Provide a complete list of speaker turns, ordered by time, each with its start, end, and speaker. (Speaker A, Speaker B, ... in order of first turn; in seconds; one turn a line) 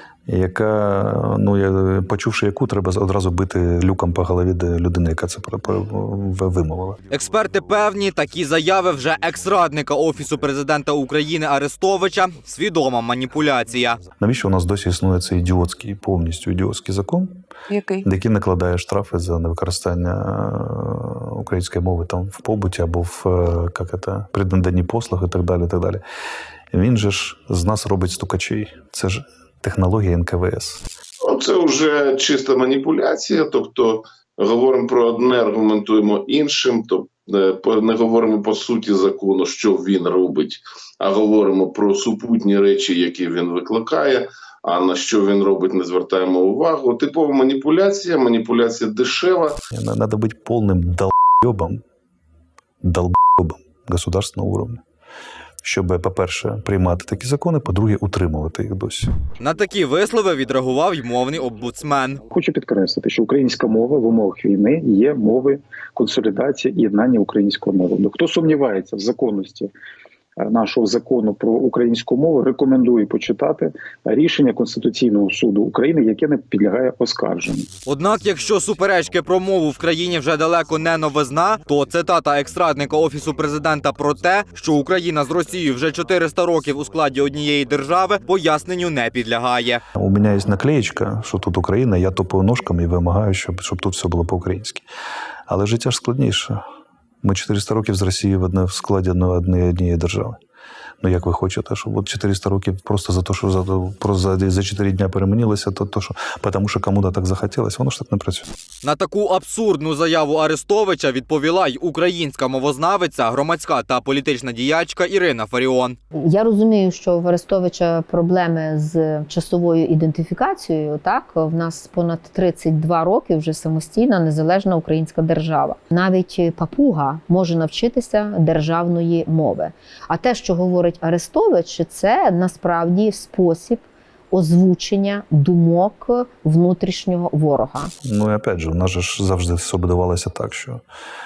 Speaker A: 0.3-7.1
Speaker B: 7.1-14.0
Speaker A: 14.2-17.4
Speaker A: 18.0-26.0
Speaker A: 26.7-30.8
Speaker C: 31.3-49.5
Speaker A: 49.7-51.8
Speaker A: 52.8-54.8
Speaker A: 55.6-59.2
Speaker B: 59.4-62.2
Speaker D: 62.3-69.7
Speaker D: 70.4-77.7
Speaker B: 77.9-89.8
Speaker A: 90.0-94.9
Speaker A: 95.5-96.6
Speaker A: 97.2-100.4
Speaker A: 101.0-108.5
Speaker B: 108.8-116.0
Speaker E: 116.4-129.6
Speaker E: 130.2-133.8
Speaker E: 134.4-137.7
Speaker A: 138.0-140.8